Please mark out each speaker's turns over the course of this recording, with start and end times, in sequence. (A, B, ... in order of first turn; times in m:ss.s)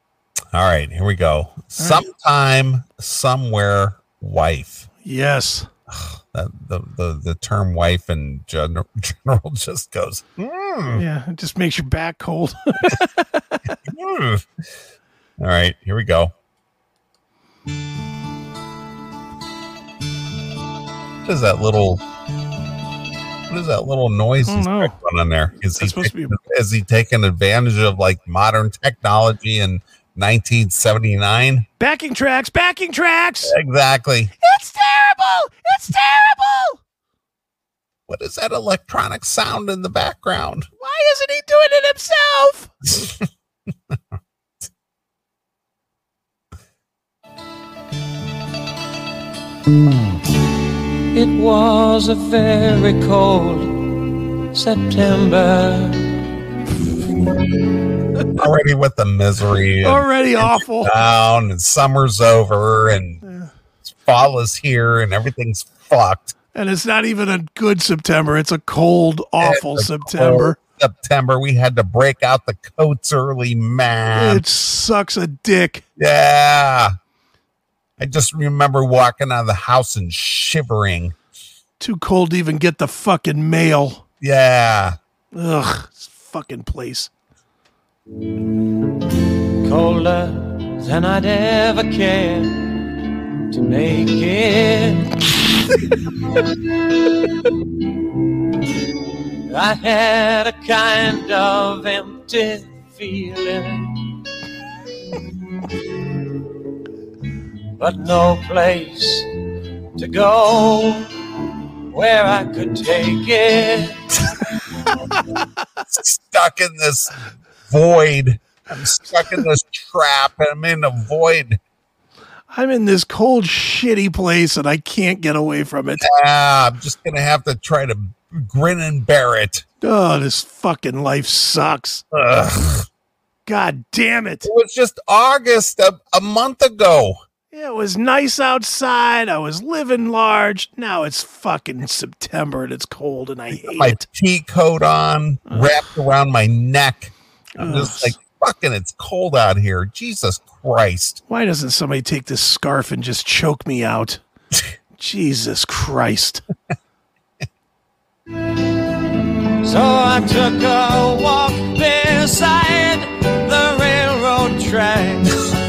0:00.5-0:04.9 A
0:01.8-0:02.0 B
0:05.0-0:05.7 B
0:05.9-0:11.0 A
0:10.9-0:13.6 B
0:13.8-0:14.7 A
0:15.4-0:16.3 A
0:21.2-0:22.0 A
0:23.5-0:31.7 A
0:24.5-0:25.0 B
0:25.8-0:26.4 B
0:31.8-0:33.6 B
0:33.4-0:34.3 A
0:34.4-0:36.8 B
0:38.1-0:40.7 A
0:40.8-0:42.7 B
0:42.9-0:43.2 A
0:51.1-0:56.2 C
0:58.3-1:03.2 A
0:59.8-1:00.9 B
1:03.2-1:03.5 B
1:03.9-1:06.3 A
1:06.5-1:10.6 B
1:09.4-1:14.4 A
1:14.1-1:15.8 B
1:16.0-1:16.9 A
1:18.0-1:21.2 A
1:21.8-1:24.0 B
1:24.2-1:25.0 A
1:25.3-1:27.1 B
1:29.6-1:32.9 C
1:33.5-1:35.3 C
1:39.5-1:44.2 C
1:47.8-1:49.3 C
1:50.0-1:51.1 C
1:51.9-1:54.2 C
1:55.9-1:57.1 A
1:57.7-2:01.6 A
2:02.5-2:06.1 B
2:06.0-2:09.6 A
2:09.8-2:12.0 B
2:12.1-2:12.9 A
2:13.5-2:14.5 B
2:14.4-2:17.2 A
2:17.5-2:24.0 B
2:23.6-2:31.2 A
2:25.5-2:25.8 B
2:27.6-2:28.2 B
2:31.3-2:34.2 B
2:35.0-2:36.4 B
2:39.6-2:45.5 C